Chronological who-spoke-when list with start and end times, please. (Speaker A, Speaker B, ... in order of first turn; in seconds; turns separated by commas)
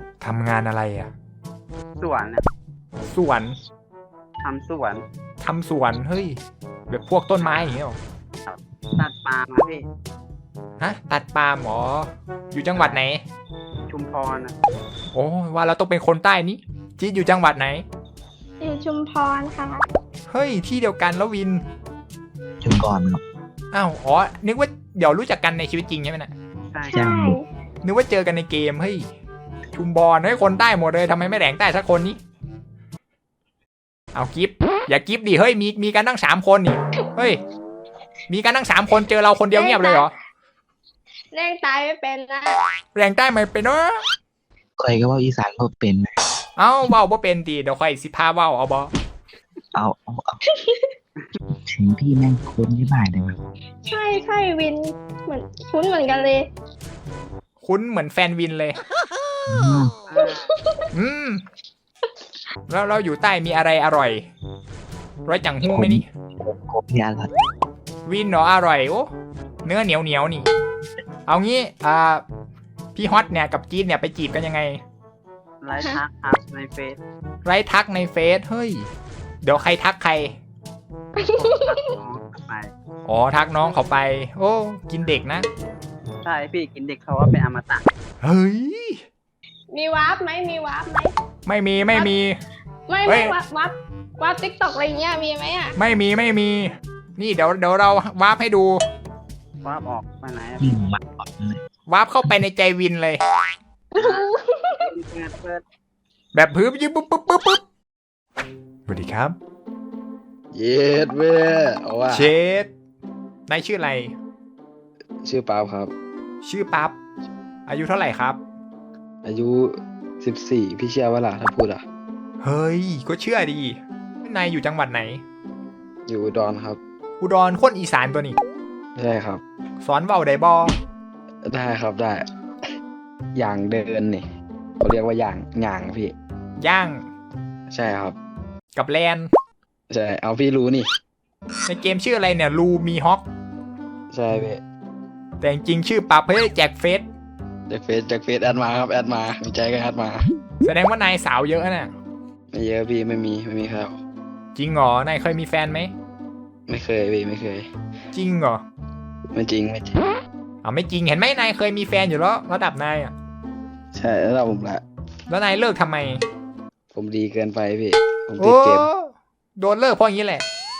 Speaker A: 0.2-1.1, Speaker B: 2.0-2.5, Speaker A: 3.1-3.6, Speaker B: 4.4-5.0, Speaker A: 5.4-8.0, Speaker B: 7.4-7.7, Speaker B: 8.5-9.8, Speaker A: 10.8-13.2, Speaker B: 13.9-14.6, Speaker A: 15.1-17.8, Speaker C: 18.6-19.8, Speaker A: 20.3-21.6, Speaker D: 22.6-23.2, Speaker A: 23.7-26.3, Speaker C: 26.8-27.4, Speaker D: 26.9-27.4, Speaker A: 27.8-29.1, Speaker A: 29.7-32.2, Speaker A: 34.1-37.4, Speaker A: 38.3-40.1, Speaker C: 39.5-40.1, Speaker C: 41.3-42.6, Speaker A: 42.9-44.0, Speaker D: 44.8-46.1, Speaker A: 46.6-48.9, Speaker D: 49.7-50.4, Speaker D: 51.6-53.4, Speaker C: 53.8-56.5, Speaker A: 57.6-58.8, Speaker D: 59.5-59.9, Speaker B: 60.1-60.4, Speaker C: 60.1-60.8, Speaker A: 60.9-61.4, Speaker A: 62.7-64.3, Speaker A: 65.2-66.0, Speaker D: 65.6-67.3, Speaker A: 68.0-69.1, Speaker A: 69.6-70.5, Speaker A: 71.3-72.2, Speaker A: 72.9-74.8, Speaker B: 75.6-77.0, Speaker A: 77.4-78.9, Speaker A: 79.4-80.4, Speaker C: 81.2-82.0, Speaker B: 81.4-82.7, Speaker A: 83.0-85.5, Speaker B: 86.2-87.9, Speaker A: 88.2-89.0, Speaker C: 89.7-91.1, Speaker A: 91.5-92.3, Speaker C: 92.9-95.8, Speaker A: 93.0-93.3, Speaker A: 95.8-98.8, Speaker B: 99.6-100.6, Speaker D: 100.6-101.6, Speaker A: 101.9-103.2, Speaker C: 103.9-104.9, Speaker B: 104.9-105.6, Speaker A: 106.3-107.6, Speaker A: 108.9-109.4, Speaker E: 110.5-112.3, Speaker A: 112.1-112.7, Speaker A: 113.5-114.1, Speaker E: 115.2-115.9, Speaker A: 116.4-116.9, Speaker A: 117.7-118.4, Speaker E: 119.2-121.8, Speaker A: 122.4-125.2, Speaker E: 126.1-126.8, Speaker A: 127.2-128.4, Speaker E: 128.9-129.4, Speaker A: 129.8-130.8, Speaker E: 131.4-132.2, Speaker E: 133.3-134.2, Speaker E: 134.8-136.1, Speaker A: 136.6-137.1, Speaker E: 137.7-138.2, Speaker A: 138.7-139.3, Speaker E: 139.9-140.9, Speaker A: 141.7-143.2, Speaker E: 144.1-144.6, Speaker A: 145.4-147.1, Speaker E: 147.7-150.2, Speaker A: 150.6-151.9, Speaker E: 152.5-154.0, Speaker A: 154.5-155.9, Speaker E: 156.7-157.7, Speaker A: 158.1-158.6, Speaker E: 159.3-160.0, Speaker A: 160.6-163.1, Speaker E: 163.9-164.8, Speaker A: 165.3-166.2, Speaker E: 166.9-168.9, Speaker A: 168.4-170.4